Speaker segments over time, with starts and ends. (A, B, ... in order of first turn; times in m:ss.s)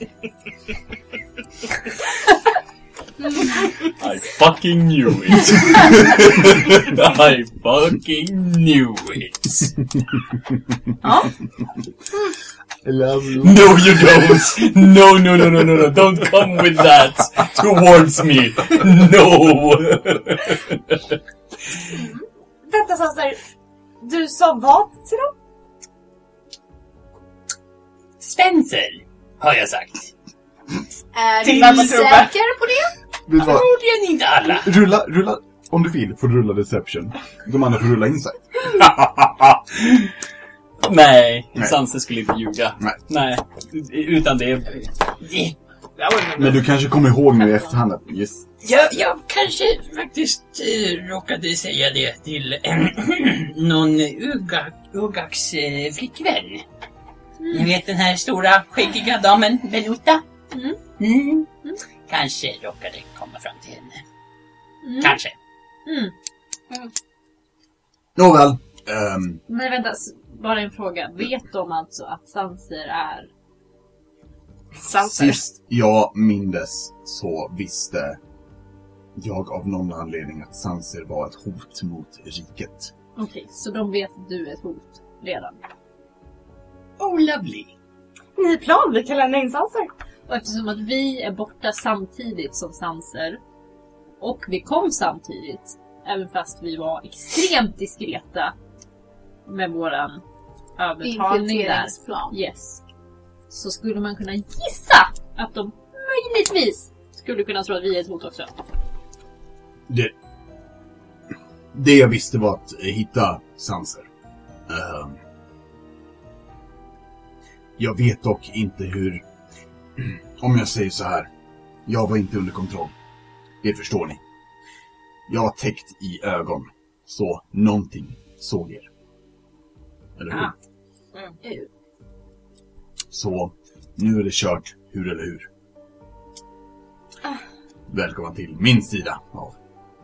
0:03.8-0:09.7 A
0:11.0-0:11.3 B
0:12.8-0:14.6 C
0:13.4-0:21.2 A
0:22.6-0:23.4 D
0:24.0-0:25.3 D
0:28.2-0:30.1 A
0:31.1-0:32.9 E
0:31.4-0:32.3 D
0:33.3-0:33.7 C
0:33.4-0:34.7 A
0:34.6-0:39.6 C
0:40.8-0:45.5 A
0:46.0-0:46.6 D
0:46.4-0:48.4 C
0:48.6-0:56.6 A
0:57.5-1:00.2 A
1:00.5-1:00.8 B
1:01.0-1:01.5 A
1:02.1-1:04.0 A
1:04.8-1:05.2 B
1:05.0-1:05.3 A
1:05.8-1:06.1 B
1:08.2-1:09.4 C
1:09.5-1:13.3 B
1:14.8-1:15.4 D
1:15.0-1:18.2 C
1:19.2-1:22.9 C
1:23.2-1:25.6 B
1:27.0-1:27.7 A
1:28.4-1:29.9 D
1:30.3-1:33.4 B
1:34.2-1:38.5 B
1:39.4-1:40.2 B
1:40.8-1:42.8 B
1:41.0-1:42.3 E
1:43.5-1:48.5 B
1:49.9-1:50.1 C
1:51.7-1:54.1 C
1:54.7-1:55.2 C
1:57.8-1:59.2 C
2:00.0-2:01.3 C
2:01.8-2:02.9 C
2:03.6-2:04.2 C
2:05.3-2:08.9 C
2:10.2-2:10.5 C
2:13.1-2:15.5 C
2:17.9-2:19.6 C